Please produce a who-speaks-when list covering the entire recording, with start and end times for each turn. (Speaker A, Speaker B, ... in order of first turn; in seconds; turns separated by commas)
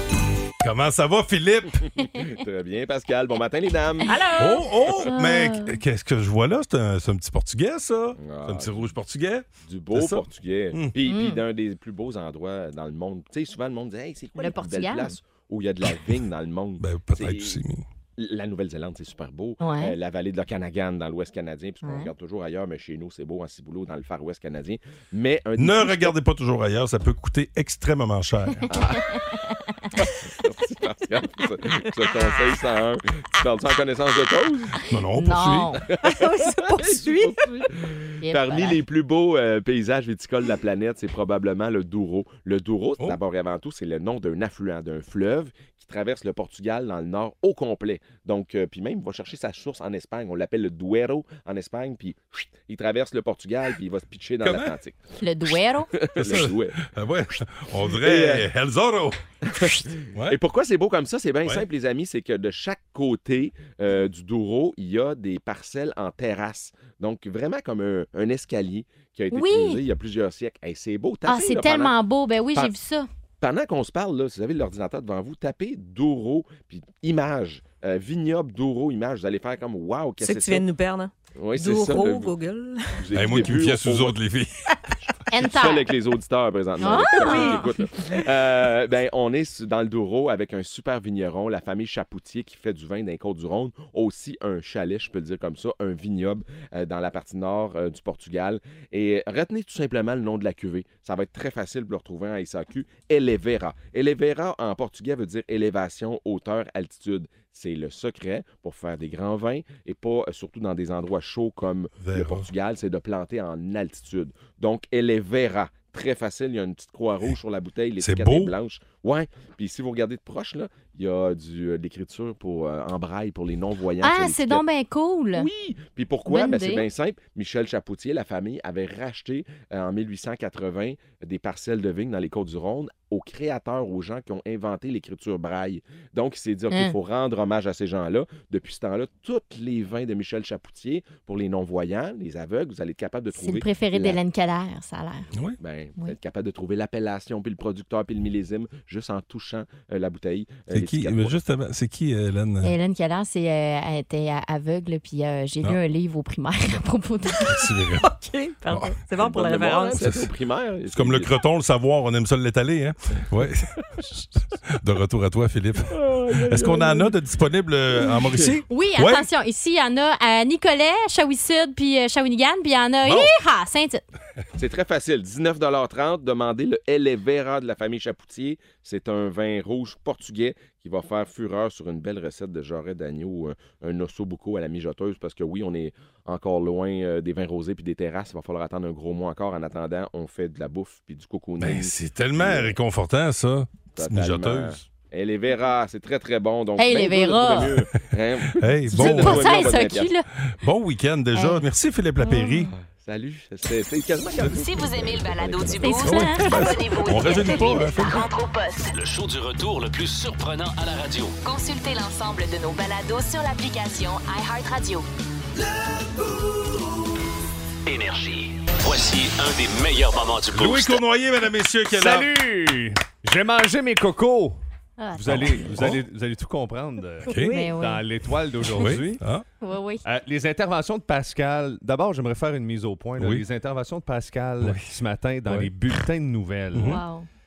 Speaker A: 0.6-1.8, Speaker B: 2.0-4.1, Speaker C: 4.1-5.8, Speaker A: 4.4-10.9, Speaker B: 8.2-9.0, Speaker B: 9.6-17.6, Speaker C: 11.0-11.4, Speaker C: 14.4-15.2, Speaker A: 16.8-17.8, Speaker B: 18.2-26.1, Speaker C: 19.6-19.9, Speaker C: 21.8-22.1, Speaker A: 25.6-28.7, Speaker C: 28.9-29.2, Speaker B: 30.4-34.8, Speaker A: 34.9-35.8, Speaker C: 35.1-35.8, Speaker B: 35.9-55.0, Speaker D: 36.0-37.7, Speaker C: 38.2-38.8, Speaker A: 54.4-54.7, Speaker C: 55.2-55.9, Speaker B: 56.0-56.8, Speaker A: 56.2-59.2, Speaker B: 57.9-58.5, Speaker B: 59.5-71.9, Speaker C: 69.3-69.8, Speaker C: 71.3-73.1, Speaker B: 73.4-80.6, Speaker D: 80.2-83.1, Speaker B: 81.4-82.3, Speaker B: 83.0-84.2, Speaker A: 83.1-84.5, Speaker C: 85.3-85.9, Speaker B: 85.4-124.6, Speaker C: 86.8-87.7, Speaker D: 87.1-87.7, Speaker A: 112.0-112.5, Speaker A: 118.0-118.5, Speaker C: 124.0-125.5, Speaker B: 125.3-144.2, Speaker C: 126.3-126.8, Speaker C: 143.3-145.3, Speaker B: 145.6-151.3, Speaker A: 150.7-152.8, Speaker C: 152.6-157.5, Speaker A: 157.5-158.1, Speaker D: 158.0-160.0, Speaker A: 158.7-159.0, Speaker B: 159.1-161.4, Speaker A: 160.0-160.3, Speaker A: 160.9-163.7, Speaker A: 164.7-169.2, Speaker C: 168.7-174.0, Speaker A: 173.0-173.3, Speaker B: 174.6-192.8, Speaker A: 191.6-194.8, Speaker B: 193.9-200.1, Speaker C: 196.8-197.8, Speaker A: 198.6-199.7, Speaker C: 198.9-200.2, Speaker A: 200.6-202.7, Speaker C: 201.3-201.6, Speaker C: 202.2-202.7, Speaker B: 202.7-205.9, Speaker E: 204.6-208.9, Speaker C: 205.8-208.1, Speaker A: 206.0-208.2, Speaker F: 208.9-211.4, Speaker E: 211.4-215.1, Speaker F: 217.8-221.0, Speaker A: 220.5-222.3, Speaker G: 221.9-224.6, Speaker C: 225.0-225.7, Speaker G: 225.1-229.2, Speaker A: 225.3-226.0, Speaker C: 227.2-228.0, Speaker A: 227.2-227.7, Speaker A: 228.8-229.4, Speaker C: 229.6-230.0, Speaker G: 230.0-237.0, Speaker A: 233.2-233.4, Speaker A: 234.6-234.9, Speaker C: 236.8-237.3